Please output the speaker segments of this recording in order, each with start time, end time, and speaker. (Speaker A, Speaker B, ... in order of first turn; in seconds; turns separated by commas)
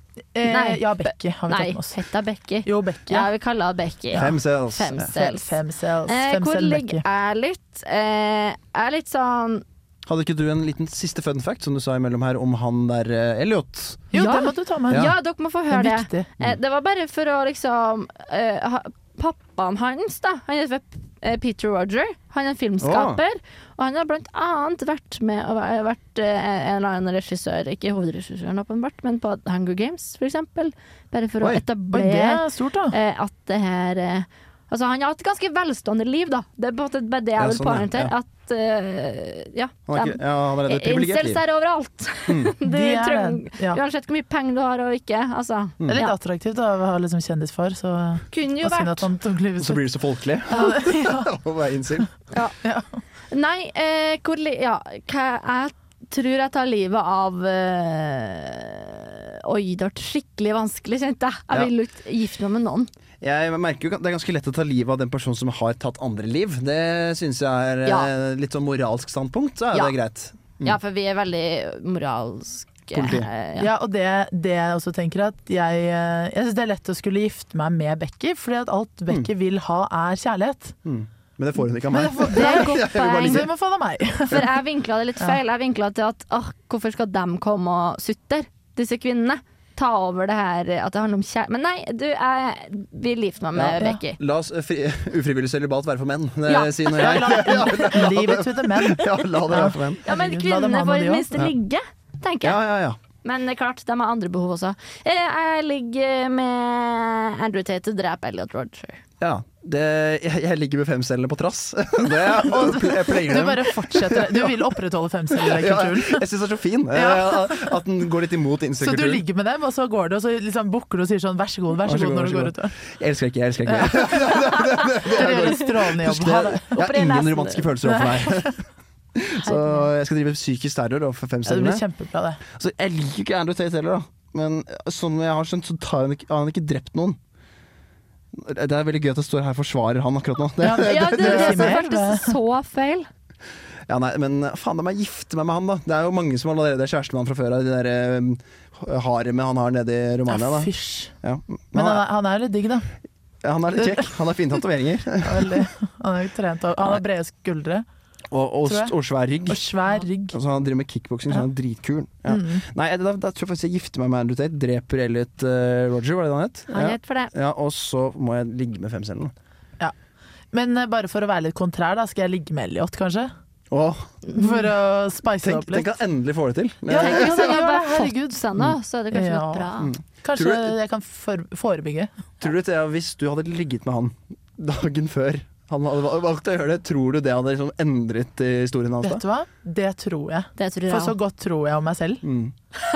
Speaker A: 0.3-2.0, Speaker B: 0.4-9.6, Speaker A: 2.6-3.3, Speaker C: 4.1-5.1, Speaker A: 5.1-7.0, Speaker C: 10.0-14.0, Speaker A: 14.1-15.1, Speaker B: 14.1-46.1, Speaker A: 15.7-16.3, Speaker C: 22.8-23.2, Speaker A: 31.9-32.9, Speaker C: 37.4-38.1, Speaker C: 39.9-41.4, Speaker C: 42.3-42.5, Speaker A: 42.6-43.8, Speaker A: 45.9-50.0, Speaker B: 48.3-49.1, Speaker C: 49.6-52.1, Speaker A: 50.5-51.3, Speaker B: 50.5-50.8, Speaker B: 53.3-62.9, Speaker C: 63.2-70.8, Speaker B: 67.8-68.1, Speaker B: 70.6-73.7, Speaker C: 72.9-73.3, Speaker A: 73.6-80.8, Speaker C: 80.8-83.5, Speaker A: 81.9-84.5, Speaker B: 82.3-83.5, Speaker B: 84.3-94.2, Speaker C: 93.5-100.0, Speaker B: 96.5-97.6, Speaker A: 96.9-101.3, Speaker B: 100.0-102.6, Speaker C: 102.4-103.0, Speaker B: 103.2-109.0, Speaker C: 109.2-114.5, Speaker A: 112.4-116.2, Speaker C: 115.3-119.2, Speaker A: 116.9-117.8, Speaker A: 118.8-122.8, Speaker C: 121.8-128.6, Speaker A: 123.7-126.7, Speaker B: 126.7-127.8, Speaker A: 127.8-128.5, Speaker C: 129.1-131.8, Speaker A: 129.4-129.9, Speaker A: 131.4-132.4, Speaker C: 132.5-137.2, Speaker C: 138.3-141.8, Speaker A: 140.6-142.4, Speaker B: 140.8-143.1, Speaker C: 143.9-150.7, Speaker A: 150.3-151.1, Speaker C: 151.2-152.0, Speaker A: 151.7-152.9, Speaker C: 153.4-155.6, Speaker A: 155.2-157.8, Speaker C: 158.3-159.7, Speaker A: 158.7-158.9, Speaker A: 159.4-160.4, Speaker C: 160.3-169.3, Speaker A: 162.3-162.7, Speaker B: 166.7-167.3, Speaker A: 170.5-173.3, Speaker C: 173.7-174.1, Speaker A: 174.3-175.9, Speaker C: 175.4-177.5, Speaker A: 176.9-178.4, Speaker B: 176.9-179.9, Speaker A: 179.1-179.7, Speaker C: 179.8-180.7, Speaker A: 180.2-182.2, Speaker C: 182.4-189.2, Speaker A: 189.0-192.2, Speaker B: 190.6-191.2, Speaker C: 192.2-192.5